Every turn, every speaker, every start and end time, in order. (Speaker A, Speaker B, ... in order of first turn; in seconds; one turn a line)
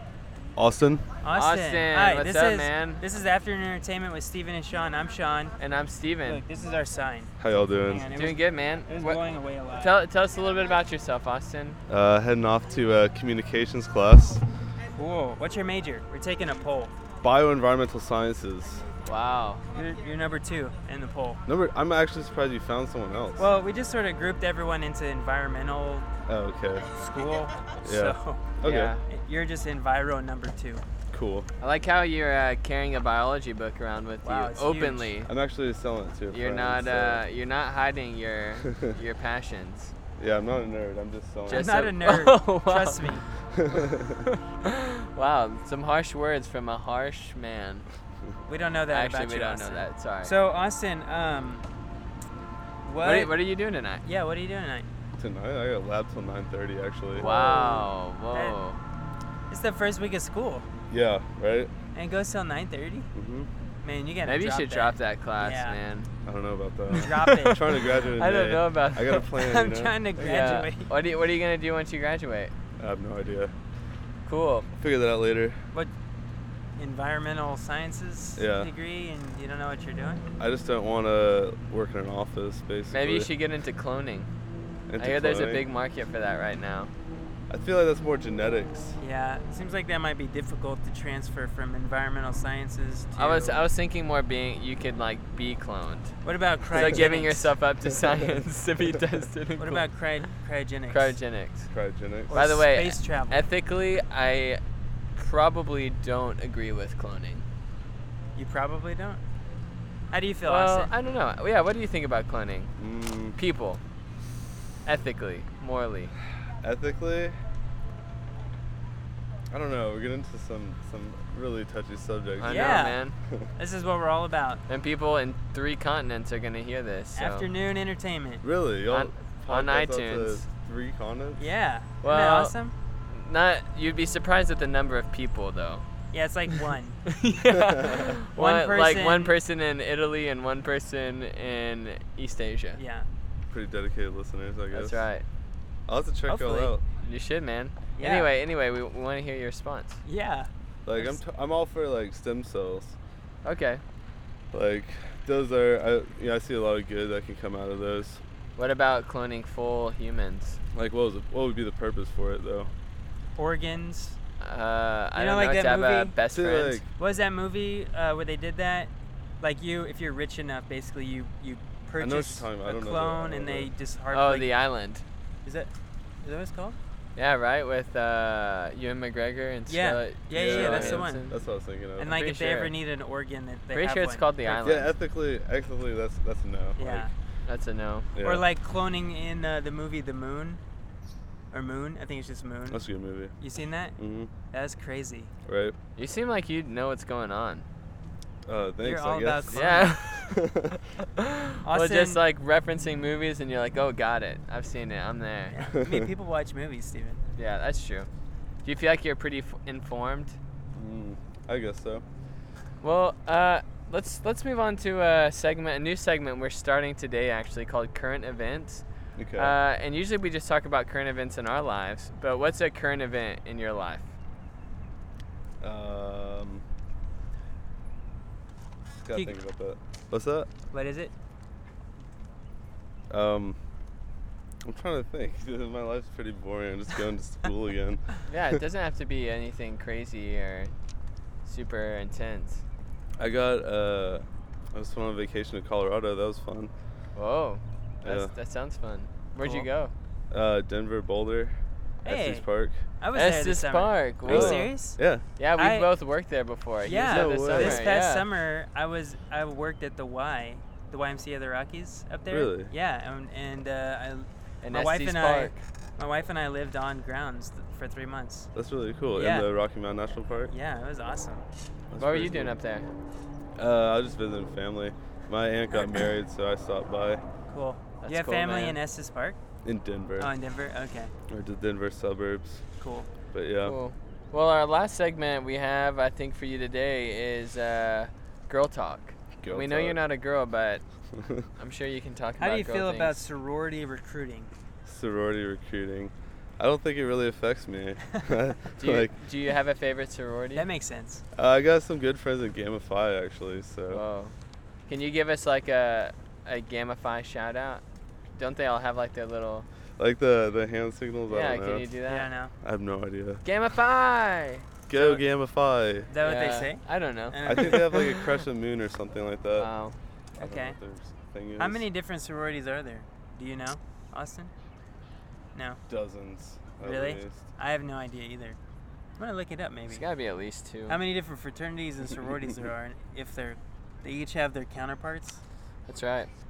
Speaker A: 0.6-1.0
Speaker B: 1.2-5.5
Speaker C: 1.3-3.0
Speaker C: 5.6-6.4
Speaker B: 6.2-7.3
Speaker A: 7.4-8.1
Speaker B: 7.8-9.9
Speaker C: 8.1-9.2
Speaker C: 9.8-11.8
Speaker A: 11.9-14.4
Speaker B: 15.0-16.9
Speaker A: 17.2-18.8
Speaker C: 19.0-19.6
Speaker B: 19.7-21.4
Speaker A: 21.4-23.5
Speaker B: 23.4-26.1
Speaker A: 26.3-26.9
Speaker B: 27.0-28.5
Speaker A: 27.8-28.9
Speaker C: 28.6-29.0
Speaker B: 29.1-30.8
Speaker A: 31.1-31.5
Speaker C: 31.6-35.3
Speaker B: 34.2-35.1
Speaker A: 35.3-37.2
Speaker C: 36.3-39.9
Speaker A: 38.6-39.0
Speaker A: 40.2-41.7
Speaker C: 41.5-43.1
Speaker B: 41.5-43.2
Speaker A: 43.5-44.2
Speaker C: 44.2-47.8
Speaker B: 48.5-51.6
Speaker C: 48.9-50.3
Speaker B: 52.8-53.3
Speaker C: 53.0-54.0
Speaker B: 54.0-54.9
Speaker A: 55.2-57.3
Speaker C: 57.2-58.8
Speaker B: 57.2-58.6
Speaker B: 59.5-60.6
Speaker A: 60.9-61.7
Speaker B: 61.9-63.1
Speaker A: 63.1-63.5
Speaker B: 63.8-65.8
Speaker C: 64.2-66.1
Speaker A: 66.2-69.9
Speaker B: 66.9-67.7
Speaker C: 67.1-69.3
Speaker B: 69.3-70.9
Speaker C: 70.2-72.5
Speaker A: 72.8-73.5
Speaker C: 74.2-74.7
Speaker A: 74.8-75.6
Speaker B: 76.8-80.2
Speaker A: 78.4-78.7
Speaker A: 80.4-83.3
Speaker C: 82.9-84.3
Speaker A: 84.9-85.6
Speaker C: 85.0-86.9
Speaker A: 87.5-89.0
Speaker B: 89.0-93.6
Speaker C: 93.2-96.2
Speaker B: 96.2-97.5
Speaker C: 96.7-99.9
Speaker B: 99.6-101.2
Speaker C: 100.9-101.7
Speaker A: 101.7-102.3
Speaker B: 102.3-103.4
Speaker C: 102.3-104.6
Speaker C: 105.1-107.4
Speaker B: 108.3-109.2
Speaker B: 110.1-110.9
Speaker C: 110.5-112.7
Speaker A: 112.8-113.4
Speaker C: 113.3-113.8
Speaker C: 114.8-116.1
Speaker A: 116.6-117.4
Speaker A: 119.5-123.5
Speaker C: 122.4-123.1
Speaker B: 122.4-123.0
Speaker B: 123.6-124.6
Speaker C: 124.7-127.5
Speaker B: 127.2-128.4
Speaker A: 128.4-131.5
Speaker C: 128.9-130.4
Speaker B: 131.4-132.7
Speaker C: 132.0-132.5
Speaker C: 133.1-135.8
Speaker B: 136.1-137.0
Speaker C: 137.1-142.8
Speaker B: 138.3-139.3
Speaker B: 142.8-143.1
Speaker A: 143.5-145.0
Speaker C: 144.7-145.2
Speaker A: 145.9-146.8
Speaker B: 146.3-146.7
Speaker C: 146.9-150.0
Speaker B: 148.0-148.3
Speaker B: 150.0-151.2
Speaker A: 150.8-152.9
Speaker C: 153.4-153.8
Speaker A: 154.5-158.2
Speaker C: 158.6-160.6
Speaker A: 160.7-162.7
Speaker B: 163.3-164.2
Speaker C: 164.4-166.8
Speaker B: 165.2-166.1
Speaker A: 166.3-166.8
Speaker B: 167.0-174.5
Speaker A: 172.0-173.7
Speaker C: 174.1-175.0
Speaker B: 175.4-176.8
Speaker C: 177.2-181.3
Speaker B: 179.7-181.3
Speaker A: 180.3-182.2
Speaker B: 182.0-184.8
Speaker C: 182.1-182.7
Speaker C: 183.7-184.9
Speaker A: 184.6-187.1
Speaker B: 186.8-187.1
Speaker C: 187.4-188.1
Speaker A: 188.1-188.4
Speaker B: 188.2-190.6
Speaker B: 191.5-192.8
Speaker A: 192.7-193.3
Speaker B: 193.4-193.9
Speaker A: 194.0-194.3
Speaker B: 194.5-195.3
Speaker A: 195.4-195.8
Speaker C: 195.9-197.6
Speaker A: 198.4-200.8
Speaker B: 198.8-199.9
Speaker C: 199.5-200.4
Speaker C: 201.2-205.6
Speaker B: 201.6-202.2
Speaker B: 205.5-207.2
Speaker C: 207.3-208.1
Speaker C: 208.6-210.4
Speaker A: 210.7-212.0
Speaker C: 212.8-218.8
Speaker A: 219.2-219.5
Speaker C: 219.3-224.1
Speaker A: 225.6-226.6
Speaker A: 229.0-230.5
Speaker B: 230.7-231.1
Speaker A: 233.1-233.6
Speaker A: 234.6-238.5
Speaker C: 238.3-240.7
Speaker C: 241.4-242.6
Speaker A: 243.2-246.7
Speaker C: 247.2-249.9
Speaker A: 248.0-248.3
Speaker A: 250.3-252.8
Speaker B: 252.0-252.4
Speaker B: 253.0-255.0
Speaker C: 253.1-254.7
Speaker A: 254.2-255.2
Speaker C: 255.4-258.3
Speaker B: 255.6-255.9
Speaker B: 256.8-268.5
Speaker A: 256.9-258.0
Speaker A: 262.3-262.7
Speaker C: 264.6-265.6
Speaker A: 268.5-270.5
Speaker B: 269.1-269.5
Speaker B: 270.5-271.4
Speaker A: 271.9-272.5
Speaker C: 272.0-272.9
Speaker A: 273.6-277.2
Speaker B: 277.5-279.4
Speaker C: 278.0-278.8
Speaker A: 279.6-280.3
Speaker B: 280.2-281.1
Speaker A: 281.3-282.6
Speaker B: 282.8-283.1
Speaker A: 283.3-283.8
Speaker C: 283.6-290.8
Speaker A: 289.4-290.0
Speaker A: 291.1-291.5
Speaker C: 291.6-293.2
Speaker B: 292.4-294.5
Speaker A: 294.9-299.1
Speaker C: 298.8-300.7
Speaker B: 300.5-301.2
Speaker A: 301.4-304.0
Speaker C: 303.9-304.3
Speaker C: 304.9-307.8
Speaker C: 308.4-309.7
Speaker A: 310.0-311.9
Speaker C: 311.3-312.3
Speaker B: 312.1-312.5
Speaker A: 312.6-313.4
Speaker C: 313.4-314.7
Speaker A: 314.9-316.1
Speaker B: 314.9-315.2
Speaker B: 316.1-318.2
Speaker C: 316.2-318.1
Speaker A: 317.4-319.7
Speaker C: 319.6-319.9
Speaker B: 320.4-320.8
Speaker A: 320.4-321.8
Speaker B: 321.6-324.5
Speaker B: 325.5-325.8
Speaker A: 325.9-327.4
Speaker B: 326.8-328.6
Speaker B: 329.2-330.0
Speaker C: 329.9-331.0
Speaker B: 330.9-335.4
Speaker C: 335.9-336.3